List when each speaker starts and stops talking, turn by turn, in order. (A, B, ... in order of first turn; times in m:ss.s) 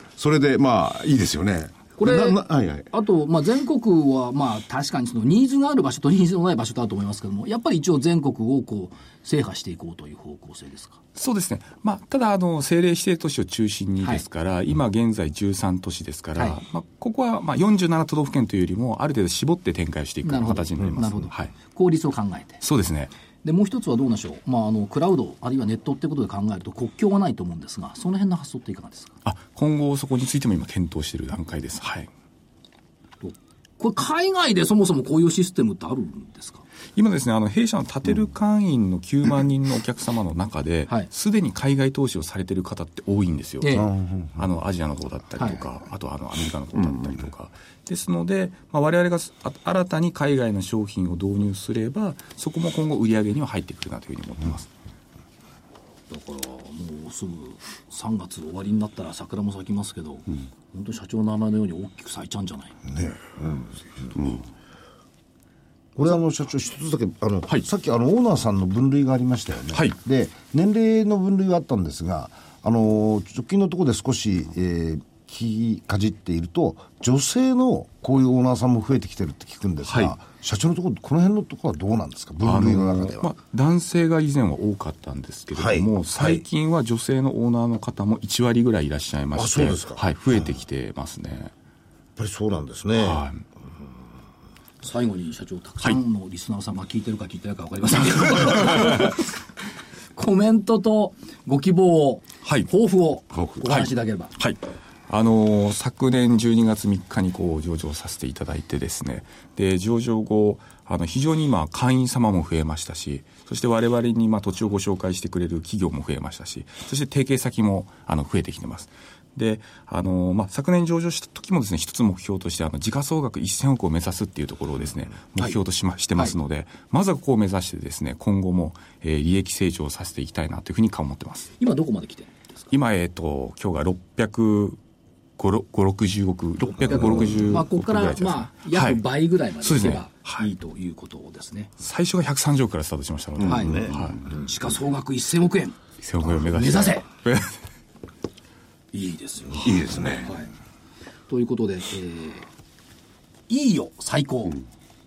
0:00.2-0:02.9 A
0:02.0-0:11.0 B
0:11.2-0:21.5 C
0:20.2-0:22.6 B
0:22.6-0:23.1 C
0:23.4-0:29.1 B
0:29.2-0:32.1 C
0:33.2-0:36.6 B
0:37.0-0:54.7 C
0:43.6-0:43.9 B
0:43.8-0:44.3 D
0:46.8-0:47.3 A
0:56.1-1:02.8 B
1:02.9-1:04.1 D
1:04.2-1:04.4 A
1:06.0-1:23.3 D
1:19.9-1:20.2 C
1:22.4-1:31.5 C
1:25.5-1:26.4 D
1:29.4-1:30.0 D
1:32.2-1:33.2 D
1:33.0-1:33.4 C
1:34.8-1:39.2 B
1:40.2-1:44.3 B
1:42.4-1:42.7 C
1:43.3-1:43.6 A
1:43.7-2:11.5 C
2:11.6-2:12.6 B
2:12.7-2:14.8 C
2:15.4-2:19.0 C
2:16.8-2:21.7 B
2:19.6-2:20.4 C
2:21.8-2:24.2 C
2:23.4-2:24.2 A
2:23.5-2:27.0 B
2:26.0-2:27.6 C
2:28.9-2:30.5 B
2:29.6-2:30.3 A
2:31.3-2:32.5 B
2:33.5-2:34.6 B